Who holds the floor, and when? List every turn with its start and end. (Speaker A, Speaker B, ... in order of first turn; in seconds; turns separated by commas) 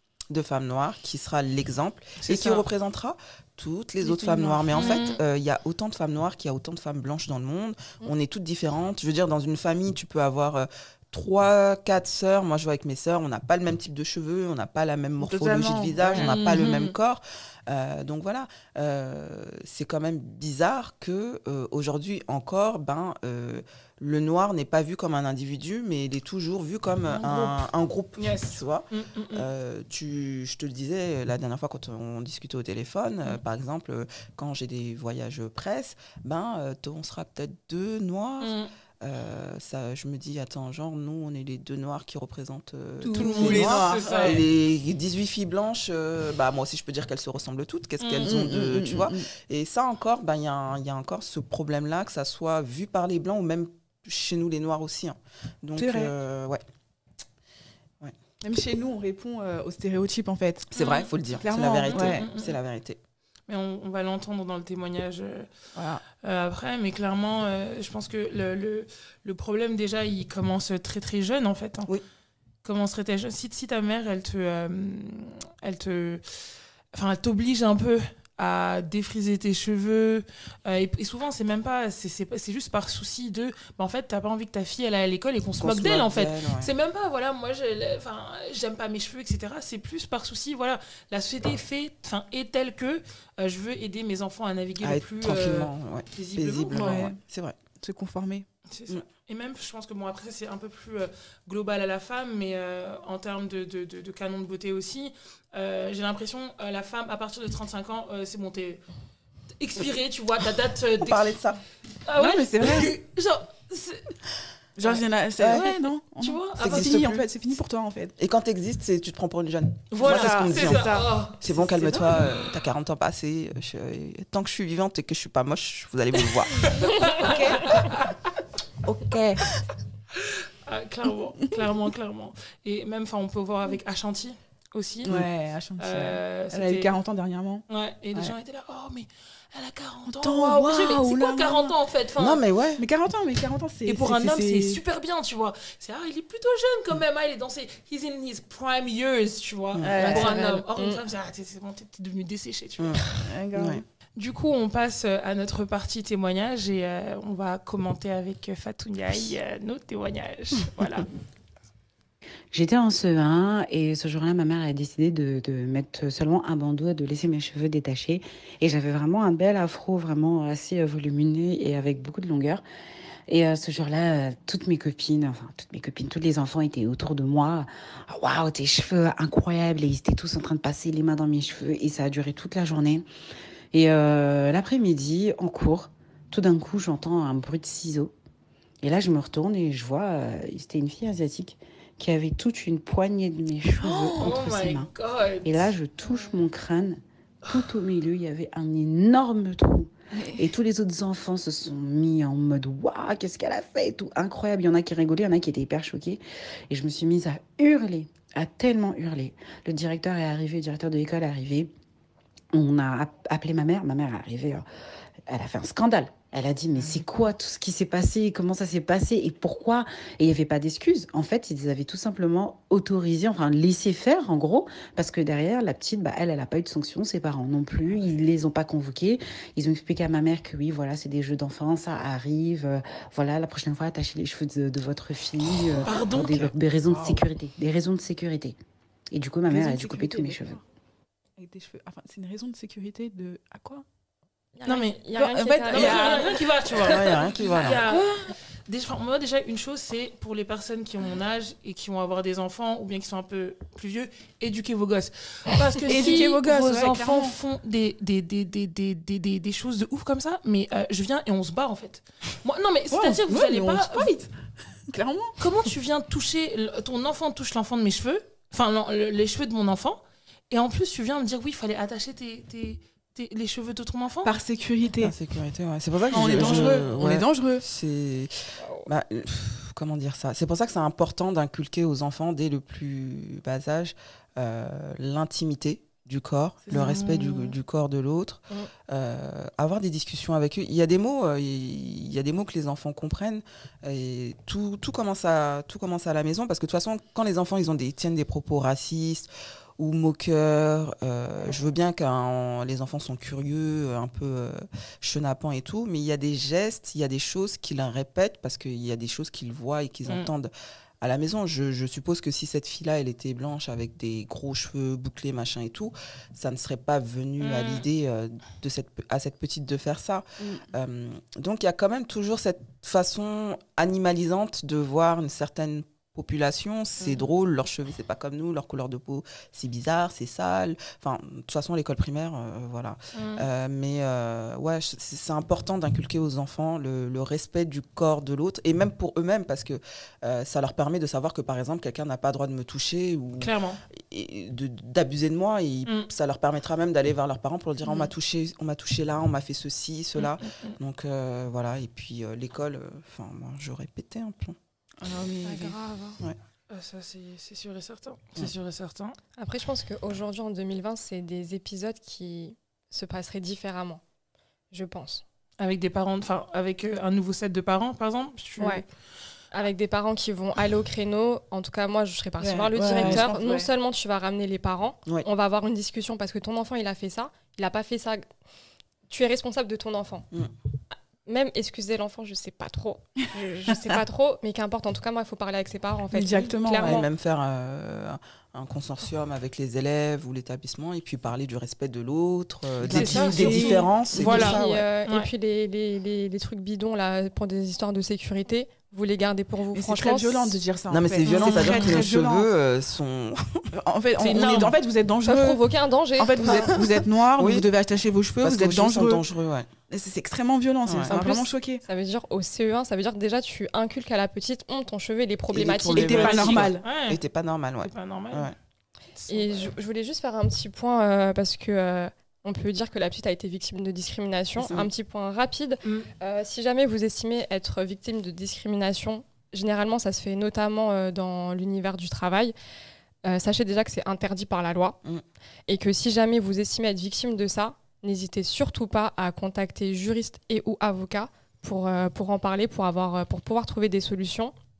Speaker A: 0.3-56.6, Speaker B: 2.2-2.6, Speaker C: 4.0-4.7, Speaker B: 4.7-5.2, Speaker C: 15.2-16.4, Speaker B: 16.1-16.9, Speaker B: 27.1-27.6, Speaker B: 28.2-29.4, Speaker B: 38.4-38.7, Speaker C: 43.0-44.4, Speaker B: 43.1-44.4, Speaker B: 48.0-48.3, Speaker C: 48.2-49.3, Speaker C: 55.8-56.1, Speaker C: 58.4-62.3, Speaker A: 60.7-63.0, Speaker B: 60.8-61.1, Speaker B: 61.9-62.6, Speaker B: 63.5-65.5, Speaker C: 65.7-66.0, Speaker B: 66.2-71.9, Speaker B: 72.6-97.0, Speaker A: 85.6-86.7, Speaker A: 94.8-97.5, Speaker C: 96.7-97.2, Speaker C: 97.8-98.5, Speaker B: 98.7-108.8, Speaker B: 109.6-111.3, Speaker A: 111.0-111.6, Speaker B: 112.0-114.1, Speaker C: 112.2-112.9, Speaker C: 114.8-118.1, Speaker B: 114.8-117.0, Speaker A: 115.4-115.7, Speaker A: 116.6-117.3, Speaker A: 118.2-126.7, Speaker B: 119.9-122.6, Speaker C: 120.0-121.1, Speaker B: 126.6-128.3, Speaker C: 127.2-128.0, Speaker C: 128.8-129.5, Speaker B: 130.2-135.2, Speaker C: 135.0-138.3, Speaker B: 135.8-136.9, Speaker B: 137.7-142.4, Speaker C: 140.1-141.7, Speaker A: 142.2-142.8, Speaker C: 142.8-144.8, Speaker B: 143.8-153.0, Speaker A: 149.7-150.0, Speaker C: 149.8-150.6, Speaker D: 150.1-151.0, Speaker A: 152.8-153.8, Speaker C: 153.2-153.8, Speaker B: 154.2-161.1, Speaker E: 162.5-172.6, Speaker E: 173.3-183.1, Speaker E: 183.7-188.1, Speaker E: 188.8-194.9, Speaker C: 193.7-194.4, Speaker B: 194.2-195.7, Speaker E: 195.4-211.7, Speaker C: 200.1-200.5, Speaker E: 212.5-214.7, Speaker E: 215.3-238.6, Speaker B: 235.4-236.5, Speaker C: 236.9-237.2, Speaker E: 239.1-240.6, Speaker C: 239.5-240.6, Speaker C: 241.4-243.8, Speaker D: 244.5-246.3, Speaker B: 244.7-245.1, Speaker C: 245.1-248.3, Speaker B: 245.7-264.1, Speaker A: 246.8-247.8, Speaker C: 255.8-257.4, Speaker C: 262.9-264.3, Speaker C: 264.9-265.4, Speaker B: 265.4-274.3, Speaker C: 274.2-275.1, Speaker A: 275.0-354.6, Speaker C: 276.1-277.6, Speaker B: 276.1-276.9, Speaker D: 278.6-278.9, Speaker C: 286.6-287.0, Speaker B: 286.7-287.5, Speaker B: 317.4-317.8, Speaker C: 320.4-320.6, Speaker B: 327.0-327.3, Speaker B: 333.1-333.5, Speaker B: 343.4-343.8, Speaker B: 345.8-346.1, Speaker B: 350.2-350.8, Speaker C: 355.0-355.8, Speaker D: 355.4-356.2, Speaker B: 356.7-359.1, Speaker D: 359.4-364.0, Speaker D: 364.7-365.2, Speaker B: 365.6-368.9, Speaker D: 368.6-368.8, Speaker D: 369.5-378.3, Speaker C: 372.4-373.7, Speaker A: 373.0-373.3, Speaker D: 379.1-380.3, Speaker D: 381.2-387.0, Speaker C: 386.1-387.1, Speaker A: 386.8-394.9, Speaker C: 392.8-393.9, Speaker B: 392.9-395.3, Speaker D: 393.0-400.6, Speaker C: 399.7-402.5, Speaker A: 400.9-403.6, Speaker B: 401.3-402.0, Speaker C: 403.7-409.2, Speaker B: 404.2-404.7, Speaker D: 405.2-406.7, Speaker A: 406.5-406.8, Speaker A: 407.4-407.7, Speaker A: 408.4-409.7, Speaker C: 409.9-411.8, Speaker A: 410.9-411.1, Speaker D: 411.1-416.7, Speaker A: 415.5-418.5, Speaker C: 415.9-416.8, Speaker B: 416.4-417.2, Speaker B: 417.8-418.5, Speaker B: 419.1-419.7, Speaker D: 419.3-432.5, Speaker A: 424.6-424.9, Speaker D: 433.2-435.0, Speaker D: 435.7-444.5